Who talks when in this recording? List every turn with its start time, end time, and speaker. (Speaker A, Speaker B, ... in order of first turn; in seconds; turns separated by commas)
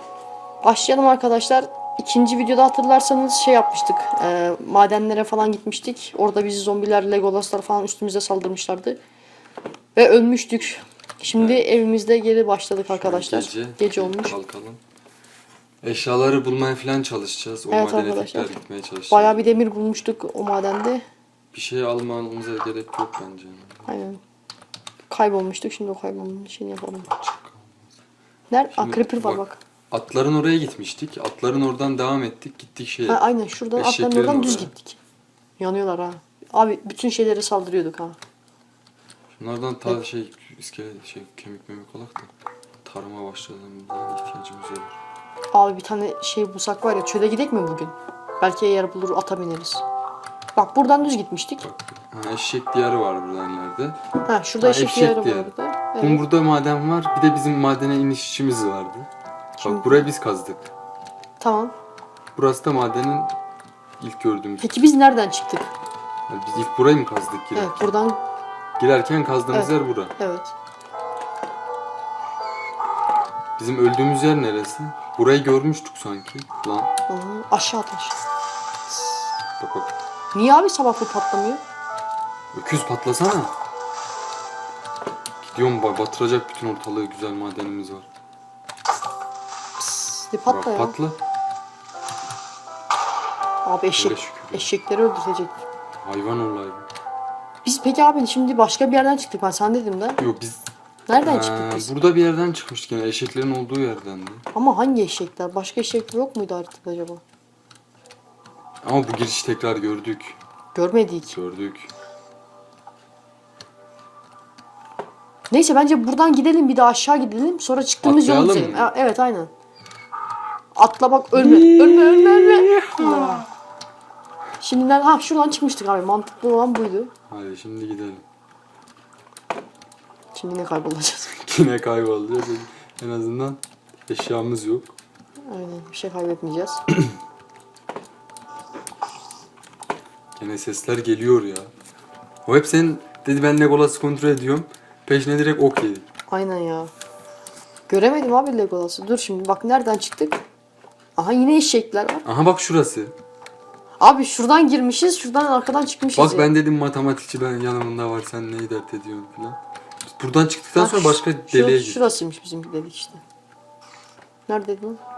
Speaker A: 0.6-9.0, Speaker A: 10.0-14.3, Speaker B: 11.4-11.8, Speaker B: 12.8-14.8, Speaker B: 15.8-19.6, Speaker A: 17.7-18.6, Speaker A: 19.1-21.1, Speaker B: 21.5-23.9, Speaker A: 23.9-24.2, Speaker A: 25.1-27.1, Speaker B: 27.1-28.0, Speaker A: 28.5-29.6, Speaker B: 28.7-34.7, Speaker A: 33.1-35.0, Speaker A: 35.6-38.2, Speaker B: 39.3-42.3, Speaker B: 42.8-45.0, Speaker A: 45.5-49.8, Speaker A: 50.5-51.7, Speaker B: 51.6-54.0, Speaker A: 54.3-56.2, Speaker B: 54.6-59.1, Speaker A: 59.6-60.1, Speaker B: 59.6-60.7, Speaker A: 61.4-61.7, Speaker B: 62.4-63.3, Speaker B: 64.0-64.8, Speaker A: 64.6-65.7, Speaker B: 66.3-67.9, Speaker A: 67.5-68.2, Speaker B: 68.8-70.1, Speaker A: 69.5-70.5, Speaker B: 73.6-76.9, Speaker A: 77.1-78.2, Speaker A: 78.9-79.2, Speaker B: 79.6-80.0, Speaker A: 80.3-81.6, Speaker B: 82.5-83.5, Speaker B: 85.4-88.1, Speaker A: 89.8-91.0, Speaker B: 90.5-91.2, Speaker A: 93.7-95.6, Speaker B: 93.9-94.7, Speaker B: 96.0-96.9, Speaker A: 97.7-100.2, Speaker B: 100.2-100.7, Speaker A: 101.1-101.9, Speaker B: 101.2-104.5, Speaker A: 104.5-107.2, Speaker B: 108.8-110.4, Speaker A: 110.8-111.4, Speaker B: 111.3-111.9, Speaker A: 115.5-119.5, Speaker B: 118.0-118.9, Speaker A: 120.8-123.5, Speaker B: 121.3-123.5, Speaker A: 124.6-127.1, Speaker B: 127.3-128.2, Speaker A: 130.3-131.4, Speaker B: 131.4-135.0, Speaker A: 135.5-136.8, Speaker B: 140.4-141.7, Speaker B: 142.4-146.1, Speaker A: 146.3-146.9, Speaker A: 147.9-150.4, Speaker A: 151.2-152.2, Speaker B: 152.2-153.2, Speaker A: 154.0-156.5, Speaker B: 156.1-162.1, Speaker A: 160.8-163.2, Speaker A: 164.5-165.0